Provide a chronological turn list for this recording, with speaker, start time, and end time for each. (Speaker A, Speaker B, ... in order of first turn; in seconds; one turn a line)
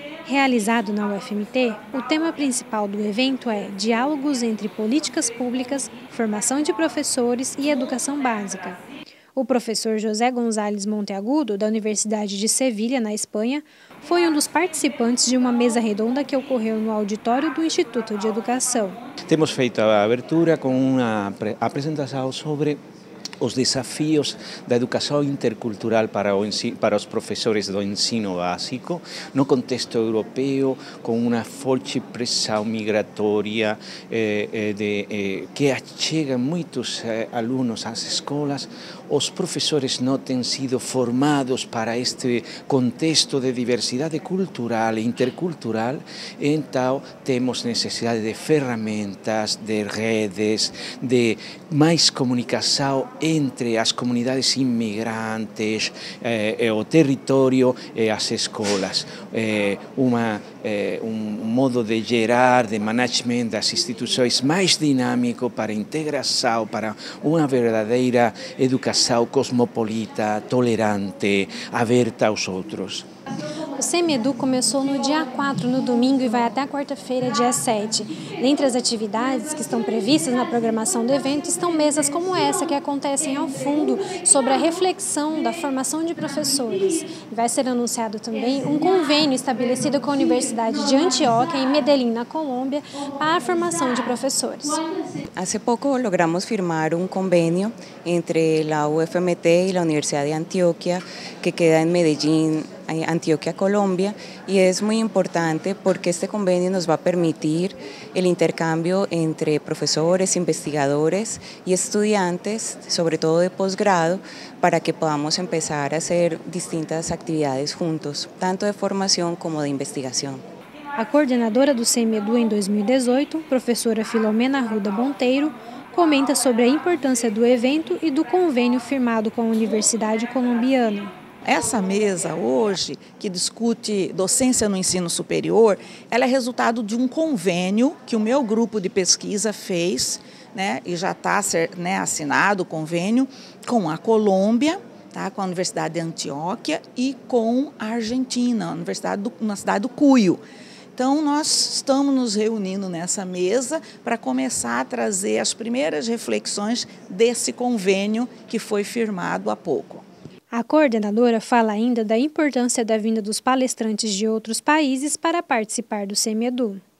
Speaker A: 0.2-8.8
Speaker A: 9.3-19.0
Speaker B: 19.3-22.8
Speaker B: 23.4-73.1
Speaker A: 73.8-94.8
Speaker C: 95.3-120.4
Speaker A: 121.0-131.1
Speaker D: 131.4-150.4
Speaker D: 150.9-160.0
Speaker A: 160.5-166.8